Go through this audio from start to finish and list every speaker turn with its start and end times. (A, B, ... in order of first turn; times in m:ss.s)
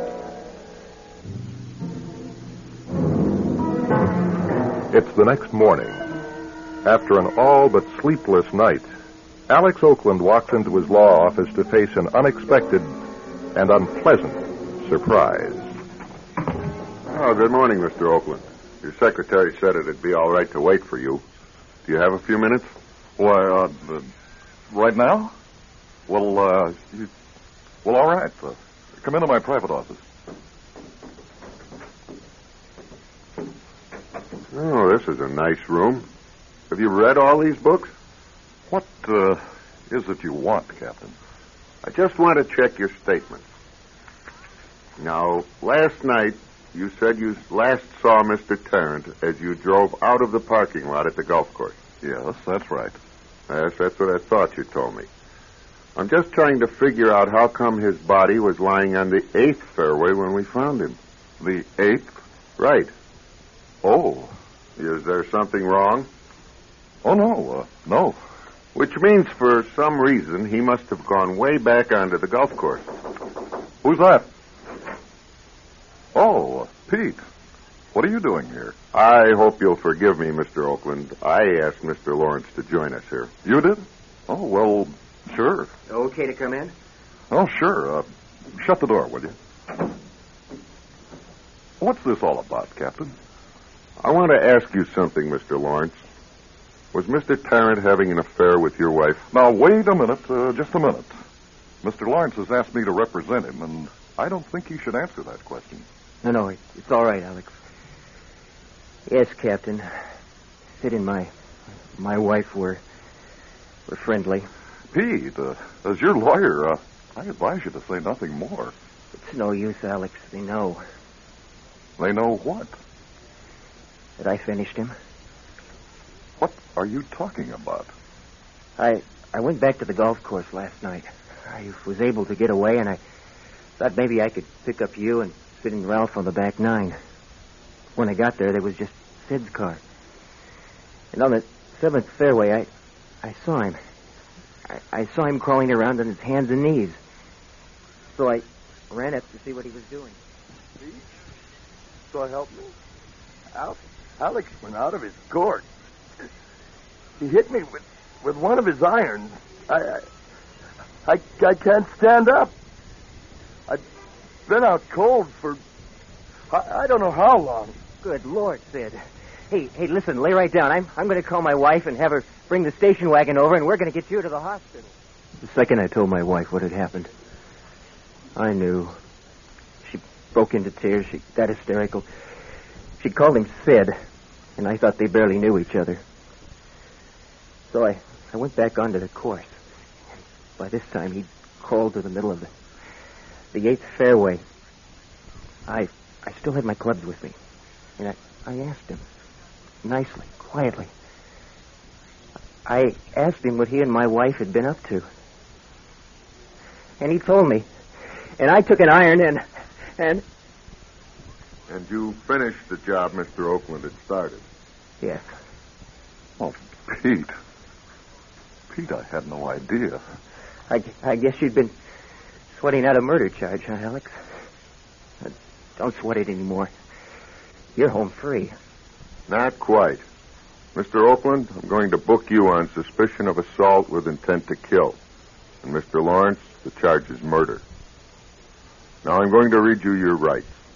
0:04.9-0:06.1 A
0:06.8-0:08.9 A
0:09.5-0:12.9 A
0:13.5-0:15.7 A
0:17.1-0:21.2 B
0:21.8-0:22.7 B
0:23.2-0:24.1 C
0:24.7-0:25.3 C
0:26.1-0:27.1 C
0:27.8-0:30.0 C
0:34.5-0:36.0 B
0:36.7-0:37.9 B
0:38.7-0:41.1 C
0:41.8-0:43.4 B
0:45.0-0:51.8 B
0:52.0-0:53.0 C
0:53.5-0:55.1 B
0:56.0-1:01.0 B
1:01.4-1:02.0 C
1:01.5-1:02.0 B
1:02.6-1:02.9 B
1:03.8-1:04.3 C
1:04.8-1:06.1 B
1:07.0-1:08.2 C
1:08.7-1:12.9 B
1:13.8-1:14.3 C
1:16.1-1:17.2 C
1:17.9-1:18.7 C
1:18.9-1:23.3 B
1:23.4-1:25.7 C
1:25.9-1:26.7 D
1:27.3-1:29.3 C
1:31.8-1:33.1 C
1:34.0-1:36.0 B
1:36.9-1:39.2 B
1:39.3-1:41.1 C
1:41.8-1:45.8 C
1:46.2-1:47.5 D
1:49.1-1:49.9 D
1:50.8-1:51.3 D
1:51.9-1:52.8 D
1:53.9-1:54.5 D
1:54.9-1:58.7 C
1:59.1-2:00.8 D
2:02.0-2:02.7 C
2:04.2-2:04.9 D
2:06.4-2:07.9 C
2:08.8-2:13.0 D
2:13.8-2:17.0 D
2:18.0-2:19.8 D
2:21.1-2:22.7 D
2:23.2-2:23.8 D
2:24.7-2:27.0 D
2:28.1-2:30.2 D
2:30.8-2:31.1 E
2:32.1-2:32.7 E
2:33.5-2:35.6 E
2:37.2-2:40.0 E
2:41.0-2:42.5 E
2:44.5-2:45.6 E
2:46.5-2:47.8 E
2:48.0-2:57.1 D
2:58.4-2:59.0 D
2:59.8-3:02.1 D
3:03.0-3:04.0 D
3:04.6-3:06.0 D
3:07.7-3:09.5 D
3:10.6-3:12.5 D
3:13.5-3:14.4 D
3:15.7-3:17.3 D
3:18.0-3:19.0 D
3:19.8-3:20.9 D
3:22.6-3:25.1 D
3:27.0-3:27.6 D
3:28.4-3:29.4 D
3:30.0-3:30.2 D
3:31.7-3:34.4 B
3:35.0-3:35.2 D
3:36.4-3:37.3 C
3:38.7-3:40.0 C
3:40.7-3:41.7 D
3:42.5-3:44.2 D
3:45.2-3:46.7 D
3:47.8-3:48.5 D
3:49.3-3:50.0 B
3:50.7-3:55.0 B
3:55.6-3:57.6 B
3:59.0-4:00.6 B